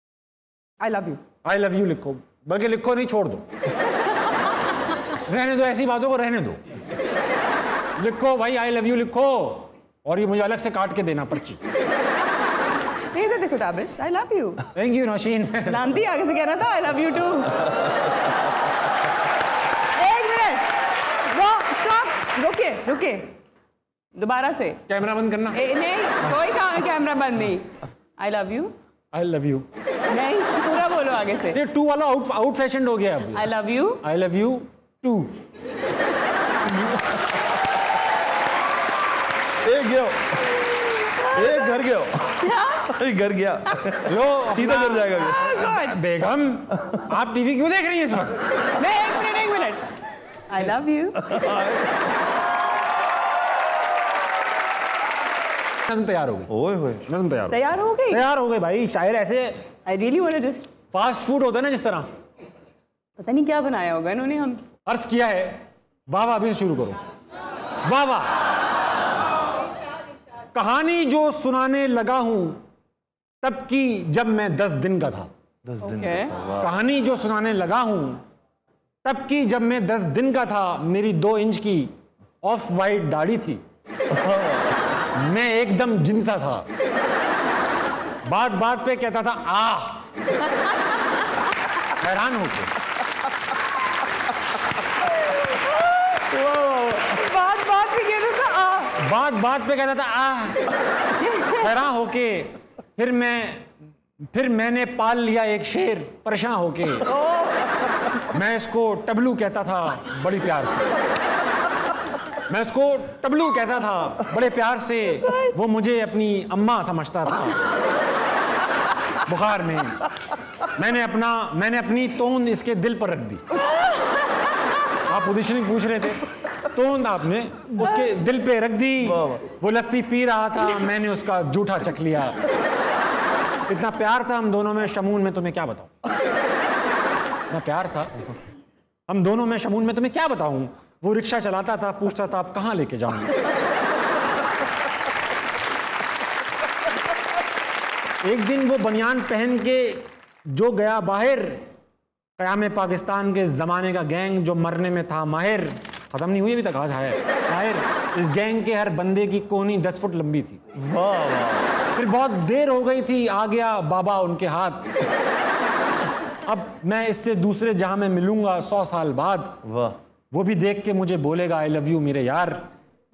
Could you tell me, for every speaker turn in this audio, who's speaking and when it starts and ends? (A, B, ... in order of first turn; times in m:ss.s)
0:00.8-0:01.2 A
0:01.4-0:03.4 B
0:05.2-0:06.6 B
0:08.0-0:11.6 B
0:13.1-0:14.7 A
0:14.7-0:15.9 B
0:15.7-0:18.0 A
0:19.9-0:23.4 A
0:24.1-0:24.8 A
0:24.9-0:25.7 B
0:25.5-0:28.7 A
0:29.1-0:29.7 B
0:30.1-0:31.6 A
0:31.5-0:35.4 B
0:33.3-0:34.0 A
0:39.6-0:40.4 C
0:41.1-0:41.7 A
0:41.2-0:45.4 C
0:42.4-0:43.0 A
0:44.0-0:48.5 B
0:45.0-0:46.0 A
0:48.7-0:51.6 A
0:51.4-0:51.8 C
0:55.9-0:59.7 B
0:56.5-0:57.1 C
0:57.5-0:58.2 A
0:59.8-1:00.7 A
1:00.9-1:02.1 B
1:03.2-1:04.6 A
1:04.9-1:07.0 B
1:07.8-1:08.4 B
1:10.5-1:12.6 B
1:13.4-1:15.3 B
1:15.7-1:16.4 C
1:15.8-1:16.4 A
1:16.5-1:18.2 B
1:19.0-1:21.9 B
1:22.4-1:23.6 B
1:25.1-1:26.7 B
1:28.2-1:30.0 B
1:31.9-1:32.7 B
1:35.5-1:39.0 A
1:39.0-1:40.6 B
1:41.2-1:41.8 A
1:41.5-1:43.7 B
1:44.3-1:47.1 B
1:47.1-1:47.9 A
1:48.2-1:50.9 B
1:52.5-1:57.6 B
1:59.2-2:00.0 B
2:00.8-2:03.4 B
2:05.0-2:12.4 B
2:13.7-2:15.9 B
2:17.5-2:18.3 B
2:19.1-2:23.4 B
2:28.2-2:31.6 B
2:32.4-2:40.6 B
2:40.8-2:41.7 C
2:41.9-2:44.9 B
2:46.4-2:49.6 B
2:49.7-2:50.0 C
2:50.3-2:52.6 B